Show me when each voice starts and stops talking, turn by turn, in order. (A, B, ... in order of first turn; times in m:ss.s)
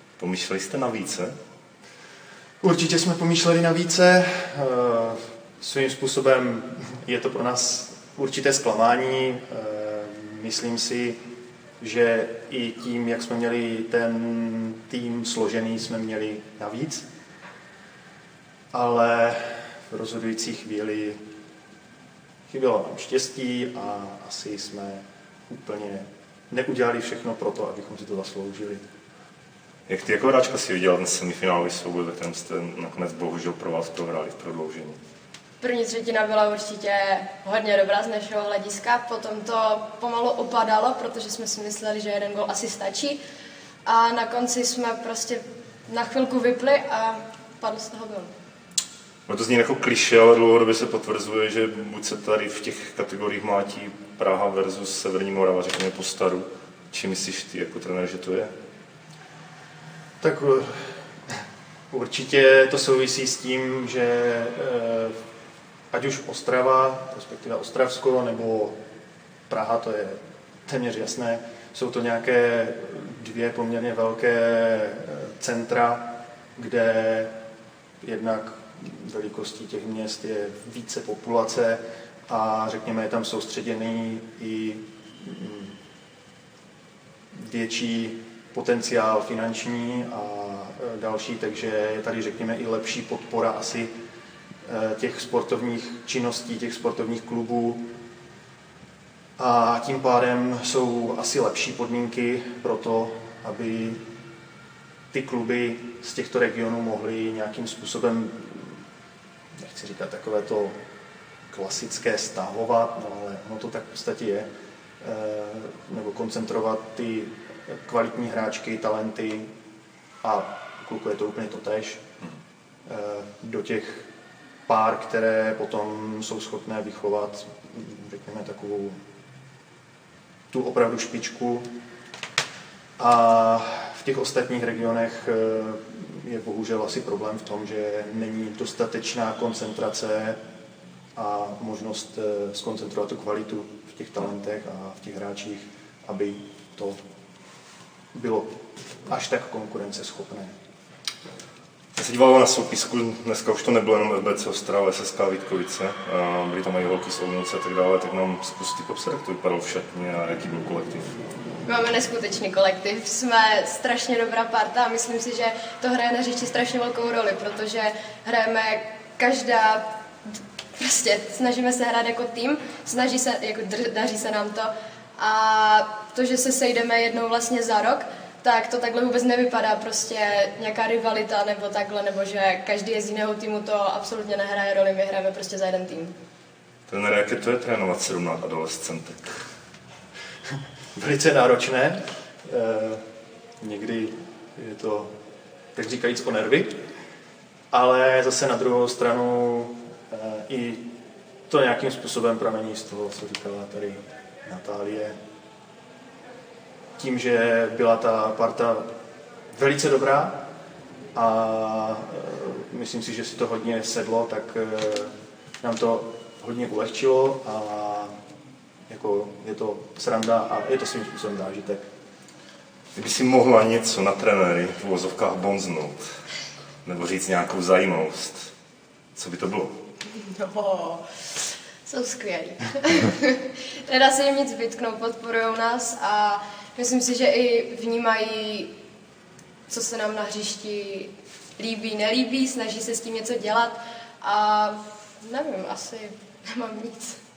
0:00.2-0:01.4 A
0:02.6-0:11.2 B
0:11.8-0:17.0 B
0:18.7-0:21.2 B
0:22.5-0:28.8 B
0:29.9-0:35.0 A
0:35.6-0:43.2 C
0:43.9-0:48.3 C
0:49.3-0:58.5 A
1:00.2-1:01.4 B
1:01.9-1:05.2 B
1:05.9-1:08.8 B
1:09.5-1:17.3 B
1:18.0-1:25.7 B
1:27.3-1:33.9 B
1:34.6-1:37.8 B
1:39.4-1:44.0 B
1:45.1-1:48.8 B
1:49.6-1:50.8 B
1:51.5-1:54.5 B
1:55.0-1:59.5 B
2:00.2-2:02.0 B
2:02.8-2:04.0 B
2:04.7-2:09.0 B
2:10.5-2:11.7 B
2:13.0-2:20.4 B
2:21.2-2:27.0 B
2:28.1-2:28.5 B
2:29.1-2:30.5 B
2:32.0-2:41.1 A
2:41.7-3:06.2 C
3:06.9-3:09.4 A
3:10.9-3:13.0 B
3:13.6-3:15.1 B
3:15.8-3:16.7 B
3:17.7-3:20.8 B
3:21.5-3:25.2 B
3:27.0-3:28.8 B
3:29.5-3:30.4 B
3:31.2-3:38.1 B
3:38.9-3:41.8 B
3:42.9-3:46.1 A
3:46.8-3:48.5 A
3:49.2-3:49.8 A
3:50.1-3:58.7 C
3:59.7-4:07.2 C